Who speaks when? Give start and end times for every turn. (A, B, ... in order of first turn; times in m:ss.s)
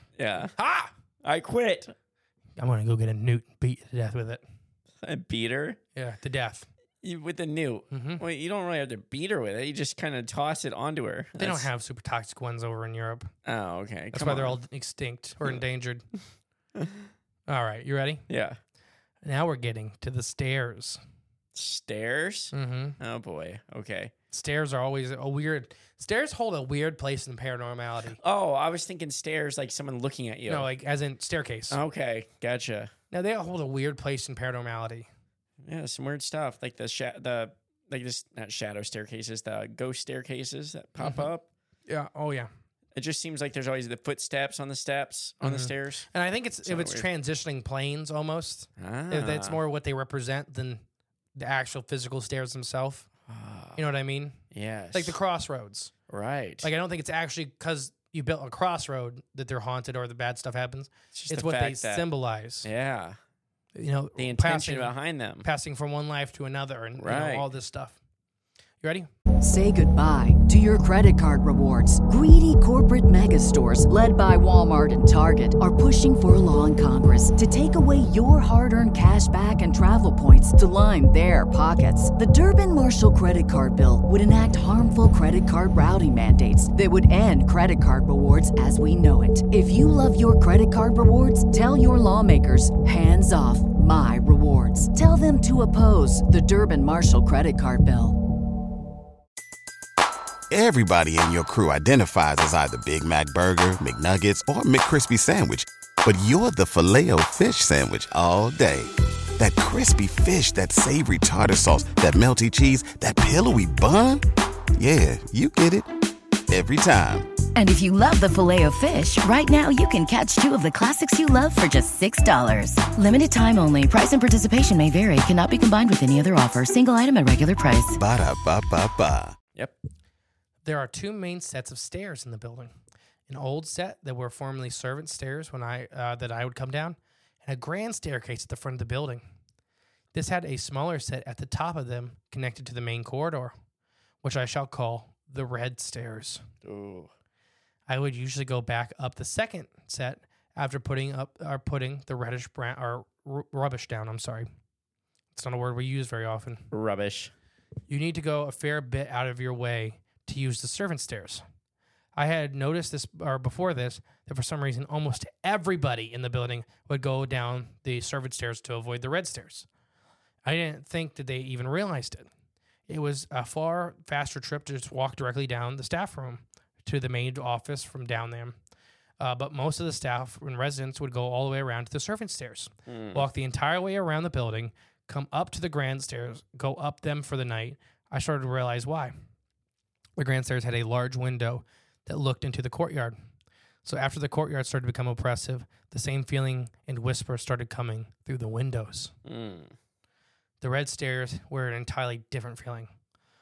0:00.2-0:00.5 A
0:00.6-0:00.9 B
0:01.2-0:01.9 A
0:02.6-0:04.4 B
0:05.0-0:05.8 A
0:05.9-0:06.7 B
0:07.0-0:11.7 A
0:07.9-0:08.2 B
0:11.4-0:13.3 B
0:13.4-0:14.6 A
0:14.1-0:16.0 B
0:17.5-0:18.2 B
0:18.3-0:18.6 A
0:19.2-0:21.0 B
0:21.5-0:24.1 A
0:22.5-0:23.0 B
0:24.3-0:28.2 B
0:28.2-0:30.7 A
0:30.5-0:31.8 B
0:31.7-0:32.9 A
0:33.1-0:35.1 B
0:35.6-0:41.4 A
0:41.0-0:41.3 B
0:41.9-0:42.5 B
0:42.9-0:46.1 A
0:45.4-0:50.8 B
0:46.6-0:47.1 A
0:48.8-0:49.6 A
0:51.4-0:53.1 B
0:53.3-0:53.8 A
0:53.8-0:54.4 B
0:54.5-0:55.2 A
0:54.9-0:55.9 B
0:56.1-0:56.7 A
0:56.6-1:02.7 B
1:01.1-1:02.0 A
1:02.6-1:03.2 A
1:03.8-1:04.9 B
1:04.2-1:05.5 A
1:05.4-1:08.0 B
1:07.0-1:07.5 A
1:08.8-1:09.1 B
1:09.4-1:38.2 C
1:40.5-1:54.2 D
1:54.8-1:55.9 D
1:56.5-1:57.3 D
1:57.5-2:08.0 E
2:08.0-2:09.4 D
2:10.6-2:12.7 B
2:13.3-2:19.2 B
2:20.1-2:23.5 B
2:24.2-2:26.4 B
2:26.6-2:27.1 A
2:27.9-2:34.5 B
2:35.3-2:36.6 B
2:36.7-2:37.3 A
2:37.9-2:41.4 B
2:42.2-2:49.7 B
2:50.4-2:52.3 B
2:52.9-2:58.6 B
2:59.2-3:09.1 B
3:02.9-3:03.2 A
3:10.2-3:13.2 B
3:13.8-3:19.1 B
3:19.2-3:19.7 A
3:20.6-3:22.9 B